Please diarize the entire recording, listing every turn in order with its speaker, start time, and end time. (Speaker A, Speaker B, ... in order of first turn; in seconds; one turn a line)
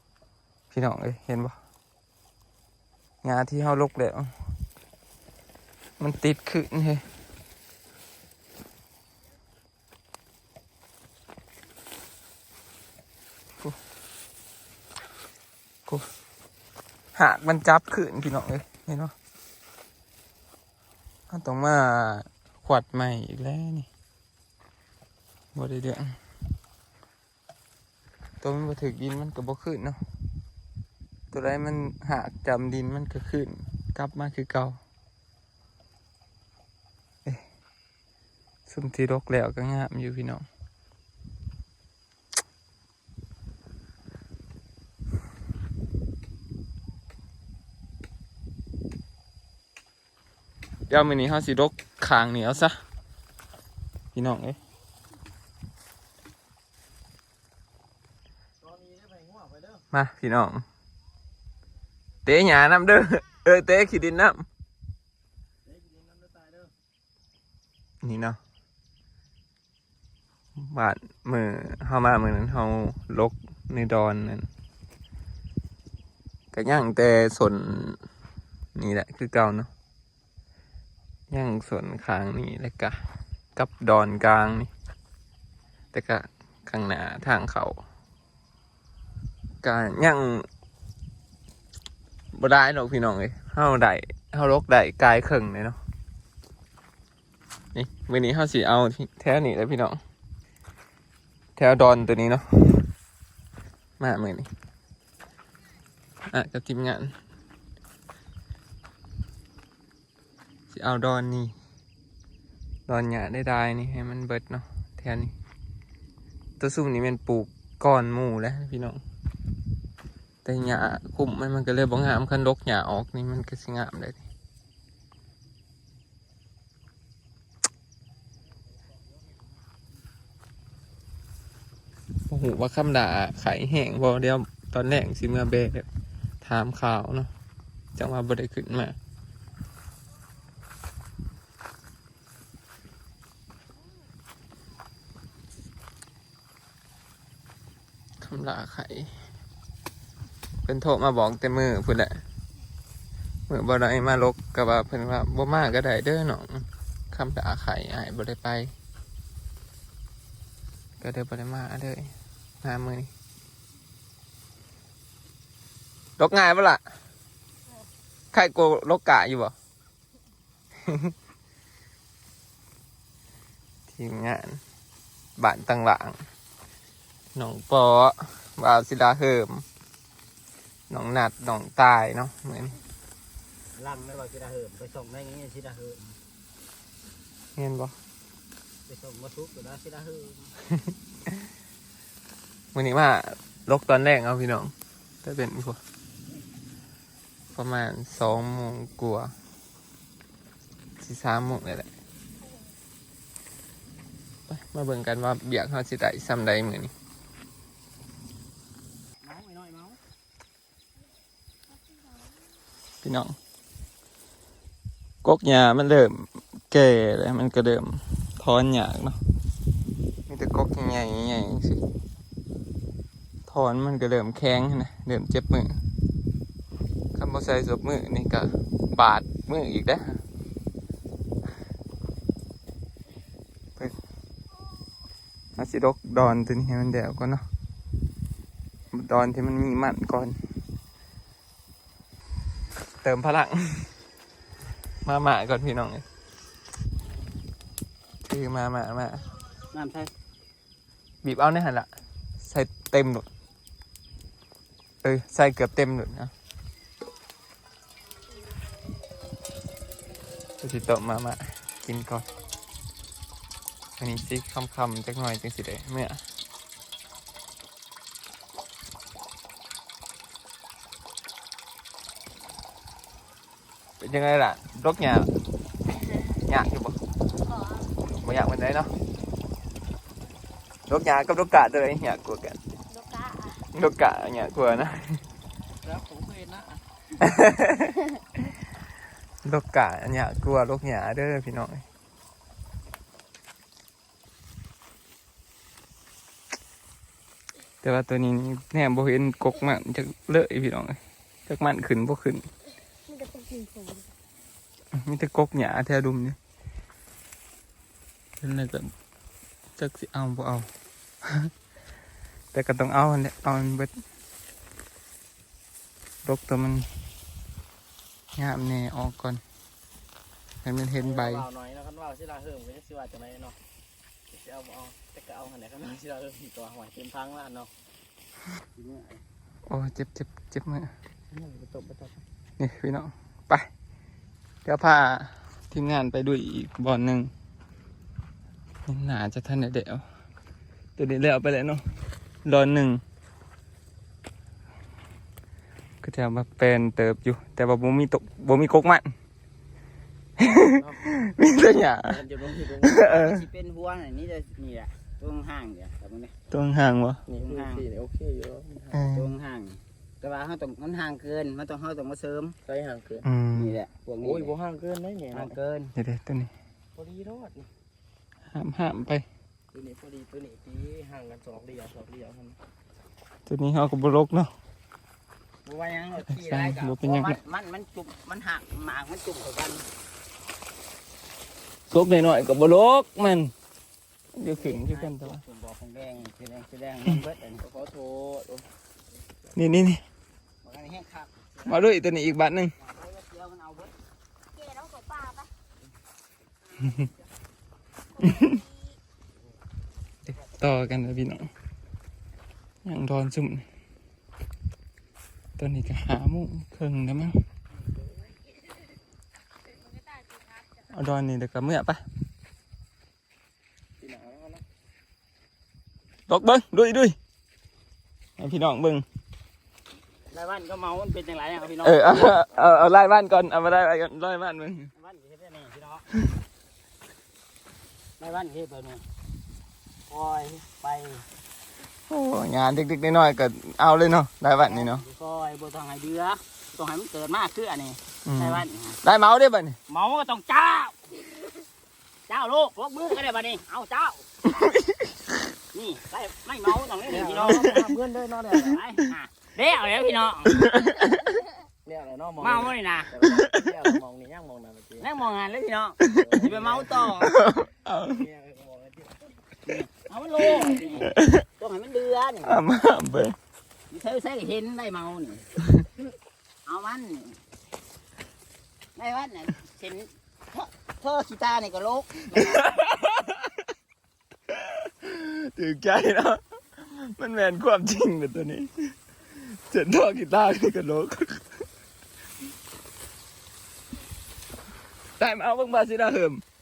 Speaker A: 0.7-1.6
Speaker A: 3.2-4.3
Speaker A: 6.0-7.0
Speaker A: 17.1-19.1
Speaker A: 21.3-23.9
Speaker A: 25.5-26.2
Speaker A: 28.4-30.0
Speaker A: 31.3-34.8
Speaker A: 38.7-40.4
Speaker A: 50.9-52.8
Speaker A: 54.1-54.6
Speaker B: 58.6-59.8
Speaker A: 59.9-60.6
Speaker A: 62.2-64.4
Speaker B: 65.7-66.7
Speaker A: 68.0-68.4
Speaker A: 70.5-74.5
Speaker A: 76.5-78.0
Speaker A: 78.7-79.7
Speaker A: 81.3-83.0
Speaker A: 83.5-84.7
Speaker A: 85.9-87.8
Speaker A: 89.6-90.5
Speaker A: 92.3-95.8
Speaker A: 97.7-100.0
Speaker A: 101.6-102.9
Speaker A: 104.0-104.5
Speaker A: 106.3-107.1
Speaker A: 110.7-111.5
Speaker A: 112.9-115.3
Speaker A: 116.6-119.0
Speaker A: 120.4-124.2
Speaker A: 132.3-135.9
Speaker A: 136.4-137.3
Speaker A: 137.9-138.9
Speaker A: 148.2-149.1
Speaker A: 150.6-152.2
Speaker A: 153.5-158.7
Speaker A: 161.0-163.1
Speaker A: 166.2-166.8
Speaker A: 168.3-169.5
Speaker A: 170.8-171.1
Speaker A: 173.9-174.6
Speaker A: 175.4-176.2
Speaker A: 177.3-179.6
Speaker A: 180.9-182.8
Speaker C: 183.8-186.2
Speaker A: 187.6-187.9
Speaker C: 188.9-190.5
Speaker A: 192.7-195.8
Speaker A: 197.5-199.3
Speaker A: 201.0-201.9
Speaker A: 204.5-206.9
Speaker C: 209.2-210.0
Speaker A: 213.0-213.3
Speaker A: 215.2-219.2
Speaker A: 220.3-221.8
Speaker A: 223.5-225.8
Speaker A: 227.1-230.2
Speaker A: 235.6-237.4
Speaker A: 238.9-240.4
Speaker A: 243.0-243.9
Speaker A: 245.0-246.0
Speaker A: 248.2-249.3
Speaker C: 249.7-250.1
Speaker A: 251.2-251.9
Speaker A: 252.4-253.2
Speaker A: 255.0-256.3
Speaker A: 260.6-262.3
Speaker A: 264.0-266.2
Speaker A: 274.0-275.3
Speaker A: 276.4-277.0
Speaker D: 277.4-277.9
Speaker A: 278.1-278.9
Speaker A: 280.9-282.6
Speaker D: 282.9-283.6
Speaker A: 283.7-285.2
Speaker B: 285.8-286.8
Speaker A: 287.2-288.0
Speaker A: 289.4-291.8
Speaker A: 297.8-302.5
Speaker D: 303.1-304.1
Speaker A: 304.9-306.4
Speaker A: 308.4-308.9
Speaker A: 309.8-310.7
Speaker A: 311.2-311.5
Speaker A: 312.5-313.9
Speaker A: 316.2-316.9
Speaker A: 318.4-319.4
Speaker A: 320.6-321.4
Speaker B: 321.0-323.6
Speaker B: 324.3-327.7
Speaker C: 328.7-329.2
Speaker A: 329.7-330.9
Speaker B: 331.3-332.2
Speaker A: 332.6-333.7
Speaker A: 334.6-337.3
Speaker A: 338.9-340.0
Speaker A: 341.0-341.8
Speaker A: 342.4-343.0
Speaker A: 346.0-349.1
Speaker B: 350.4-351.2
Speaker A: 350.4-352.2
Speaker B: 351.9-353.0
Speaker A: 352.8-353.4
Speaker C: 353.0-356.3
Speaker A: 356.5-357.2
Speaker B: 357.3-359.0
Speaker C: 357.3-357.8
Speaker A: 358.9-359.3
Speaker C: 359.1-362.6
Speaker B: 362.6-363.3
Speaker A: 363.2-363.8
Speaker C: 363.5-364.5
Speaker B: 364.2-365.6
Speaker C: 365.3-365.9
Speaker A: 365.9-366.5
Speaker B: 366.9-367.7
Speaker A: 368.5-369.2
Speaker B: 369.7-372.6
Speaker A: 373.5-374.5
Speaker C: 375.6-379.8
Speaker A: 376.3-377.4
Speaker A: 381.9-383.5
Speaker A: 384.3-385.4
Speaker C: 384.5-387.6
Speaker B: 387.6-388.6
Speaker A: 389.5-390.0
Speaker C: 390.6-391.9
Speaker A: 391.6-392.7
Speaker C: 392.8-393.9
Speaker D: 394.5-395.5
Speaker D: 398.2-398.6
Speaker A: 398.2-398.6
Speaker A: 400.3-401.5
Speaker A: 402.8-403.6
Speaker A: 405.6-407.4
Speaker B: 407.7-408.3
Speaker A: 410.9-412.0
Speaker B: 414.0-414.6
Speaker A: 416.3-417.1
Speaker A: 418.4-419.0
Speaker C: 420.3-422.1
Speaker A: 421.8-424.9
Speaker C: 424.9-426.1
Speaker C: 428.2-429.0
Speaker C: 430.1-431.2
Speaker A: 432.1-435.0
Speaker C: 434.6-439.0
Speaker A: 438.2-439.8
Speaker C: 439.9-440.9
Speaker C: 442.3-444.2
Speaker A: 444.5-445.2
Speaker C: 445.7-447.8
Speaker B: 447.1-448.8
Speaker C: 448.6-450.7
Speaker A: 450.5-451.3
Speaker B: 451.8-455.1
Speaker C: 452.4-453.1
Speaker A: 453.2-453.8
Speaker C: 455.0-457.3
Speaker B: 456.1-457.2
Speaker A: 457.2-458.3
Speaker B: 458.0-459.2
Speaker C: 459.6-462.6
Speaker A: 461.0-461.4
Speaker A: 462.4-463.4
Speaker C: 463.9-465.5
Speaker C: 466.6-467.4
Speaker C: 468.9-472.7
Speaker A: 472.4-473.6
Speaker A: 474.5-481.6
Speaker A: 485.2-486.4